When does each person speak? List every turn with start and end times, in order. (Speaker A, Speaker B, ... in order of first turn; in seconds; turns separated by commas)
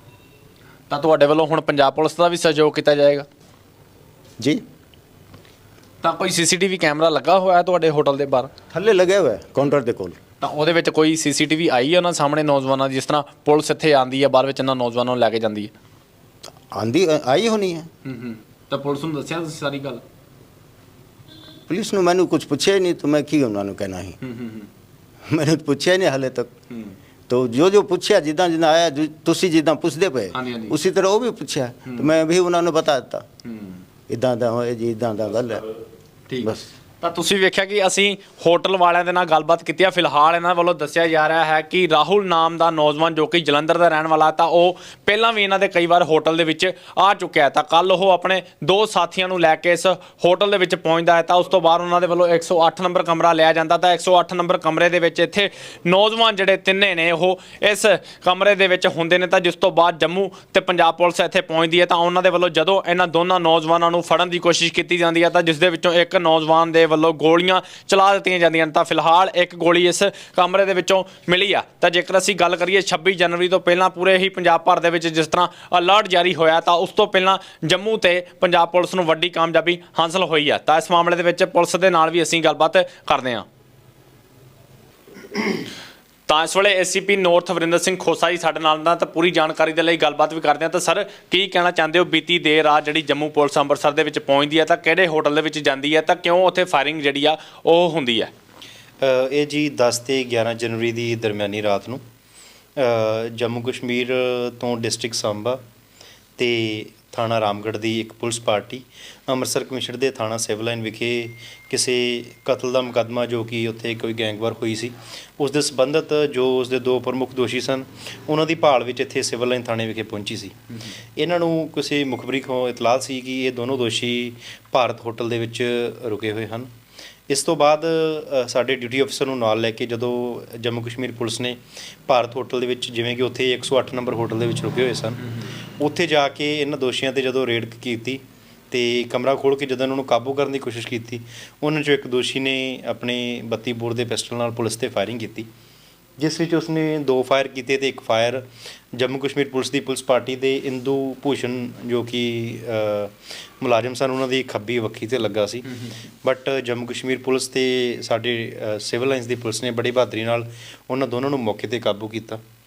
Speaker A: 0.9-3.3, Speaker A: 6.0-8.5, Speaker B: 8.7-10.2, Speaker A: 10.4-15.7, Speaker B: 16.7-17.9, Speaker A: 18.1-20.0, Speaker B: 21.7-24.2, Speaker A: 24.2-24.7, Speaker B: 25.3-26.5, Speaker B: 27.3-33.2, Speaker A: 30.3-30.8, Speaker A: 31.9-32.1, Speaker A: 33.5-33.8, Speaker B: 34.1-35.6, Speaker A: 36.3-83.5, Speaker B: 36.4-36.7, Speaker A: 86.3-98.3, Speaker C: 99.0-102.0, Speaker C: 102.8-105.6, Speaker C: 106.4-120.6, Speaker C: 121.2-126.7, Speaker C: 127.3-135.2, Speaker C: 135.8-145.5, Speaker C: 146.2-155.7, Speaker C: 156.2-162.4